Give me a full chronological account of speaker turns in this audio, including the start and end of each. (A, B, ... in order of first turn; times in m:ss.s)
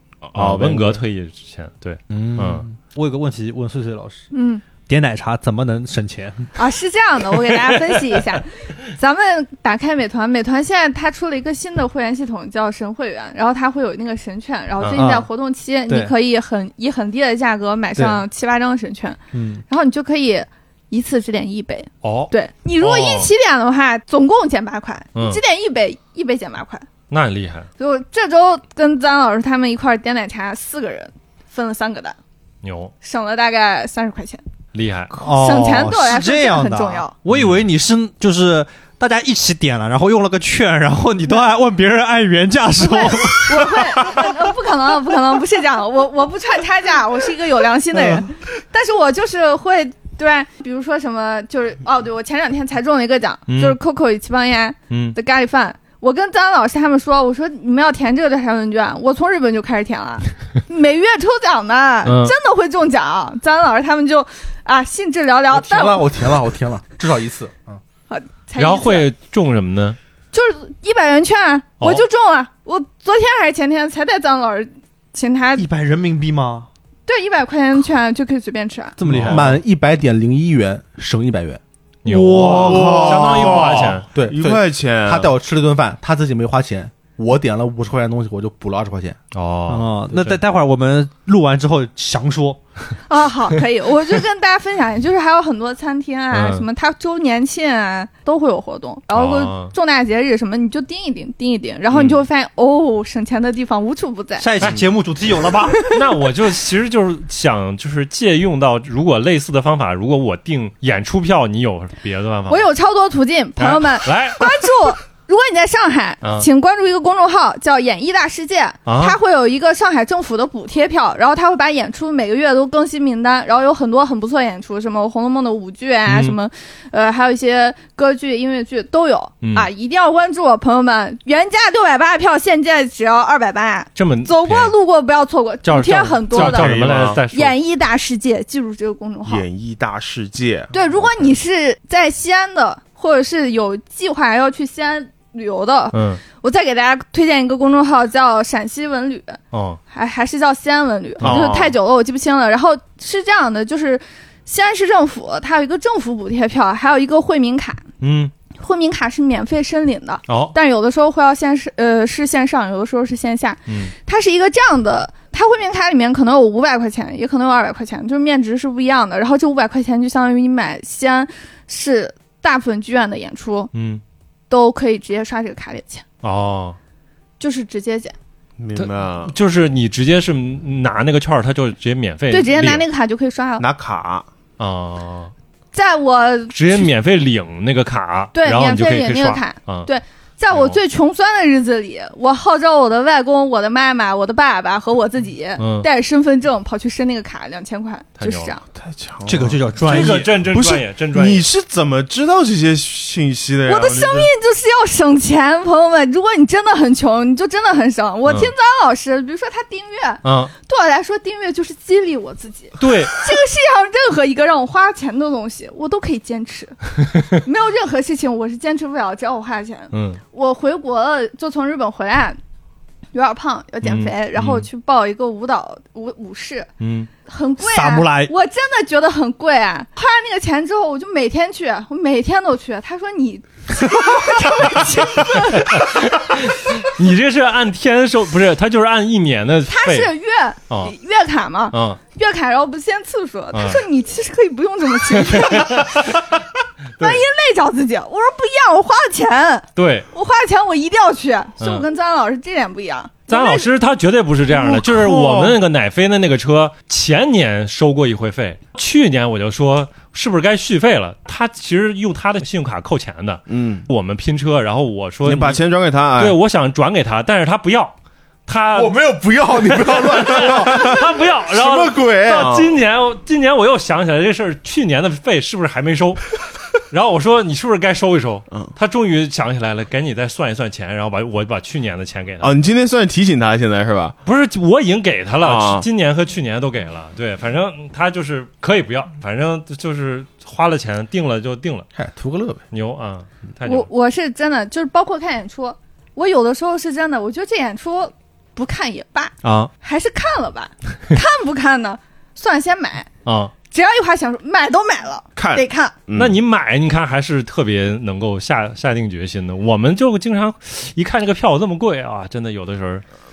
0:00.2-0:01.0 A
0:00.3-0:02.7 B
0:02.1-0:04.3 C
0:04.3-0:04.6 D
0:04.9-0:06.5 C
0:06.5-0:26.9 D
0:14.9-0:15.3 C
0:15.9-0:16.1 C
0:17.9-0:18.2 C
0:19.3-0:19.6 C
0:22.0-0:23.3 B
0:25.1-0:25.4 B
0:27.1-0:27.7 B
0:27.8-0:32.2 D
0:32.6-0:32.9 B
0:33.0-0:34.4 D
0:34.7-0:35.1 B
0:35.1-0:44.3 C
0:35.2-0:37.1 D
0:37.3-0:37.6 B
0:42.8-1:06.1 D
0:47.9-0:48.3 C
0:53.5-0:53.8 B
0:54.9-0:55.2 B
1:02.0-1:02.3 B
1:05.5-1:07.8 E
1:08.1-1:09.1 D
1:08.6-1:10.0 B
1:10.3-1:15.7 D
1:15.6-1:16.7 C
1:17.1-1:19.0 D
1:19.0-1:19.6 C
1:19.1-1:19.5 B
1:19.3-1:21.6 E
1:22.0-1:24.1 B
1:22.0-1:23.9 C
1:22.5-1:25.3 A
1:24.1-1:29.2 E
1:29.3-1:30.4 B
1:29.7-1:32.6 C
1:33.1-1:44.5 D
1:36.3-1:36.6 B
1:39.1-1:39.7 B
1:41.9-1:42.2 B
1:44.4-1:45.9 C
1:44.6-1:44.9 B
1:45.9-1:52.7 B
1:52.5-2:19.4 D
1:53.6-1:54.7 B
1:56.2-1:56.5 B
1:58.9-1:59.2 B
2:06.1-2:06.4 B
2:09.4-2:09.7 B
2:14.0-2:14.7 B
2:15.6-2:17.5 B
2:16.3-2:17.2 A
2:19.2-2:21.2 A
2:20.7-2:29.4 D
2:25.9-2:26.2 B
2:29.5-2:29.8 B
2:29.9-2:37.8 D
2:31.2-2:31.6 B
2:31.2-2:31.7 A
2:38.0-2:38.3 B
2:38.5-2:53.7 D
2:40.3-2:40.5 B
2:43.7-2:43.9 B
2:53.7-2:54.0 B
2:54.5-2:56.0 D
2:56.2-2:56.8 B
2:57.4-2:58.1 D
2:58.6-2:59.3 A
2:58.8-3:02.8 B
3:02.3-3:03.6 D
3:03.6-3:04.3 A
3:04.6-3:05.3 B
3:05.7-3:06.9 D
3:06.5-3:09.9 B
3:08.3-3:18.6 D
3:10.5-3:10.8 B
3:15.6-3:15.9 B
3:18.2-3:18.5 B
3:18.7-3:24.3 A
3:19.2-3:20.4 C
3:19.8-3:21.5 B
3:23.6-3:42.4 D
3:28.2-3:28.5 B
3:30.2-3:30.5 B
3:32.8-3:33.3 B
3:39.9-3:40.2 B
3:43.1-3:46.7 D
3:43.8-3:44.7 B
3:46.8-3:47.1 B
3:47.2-3:56.1 D
3:47.6-3:48.3 C
3:55.3-4:00.1 B
3:59.7-4:06.2 D
4:01.7-4:02.0 B
4:03.5-4:03.8 B
4:05.2-4:06.2 B
4:07.0-4:07.2 B
4:07.0-4:13.7 D
4:09.8-4:10.1 B
4:11.6-4:11.9 B
4:13.3-4:25.6 B
4:14.6-4:15.6 A
4:23.5-4:23.9 A
4:25.2-4:26.4 A
4:26.2-4:27.9 B
4:28.5-4:36.4 B
4:28.7-4:32.5 E
4:30.6-4:31.0 A
4:32.3-4:32.7 A
4:36.9-4:42.5 B
4:42.4-4:44.2 A
4:44.2-4:51.9 B
4:45.4-4:45.8 A
4:51.9-4:52.6 E
4:52.7-4:53.9 B
4:53.6-5:03.1 D
4:59.4-4:59.7 B
5:03.2-5:03.5 B
5:03.7-5:06.0 D
5:05.4-5:06.4 A
5:06.1-5:13.0 B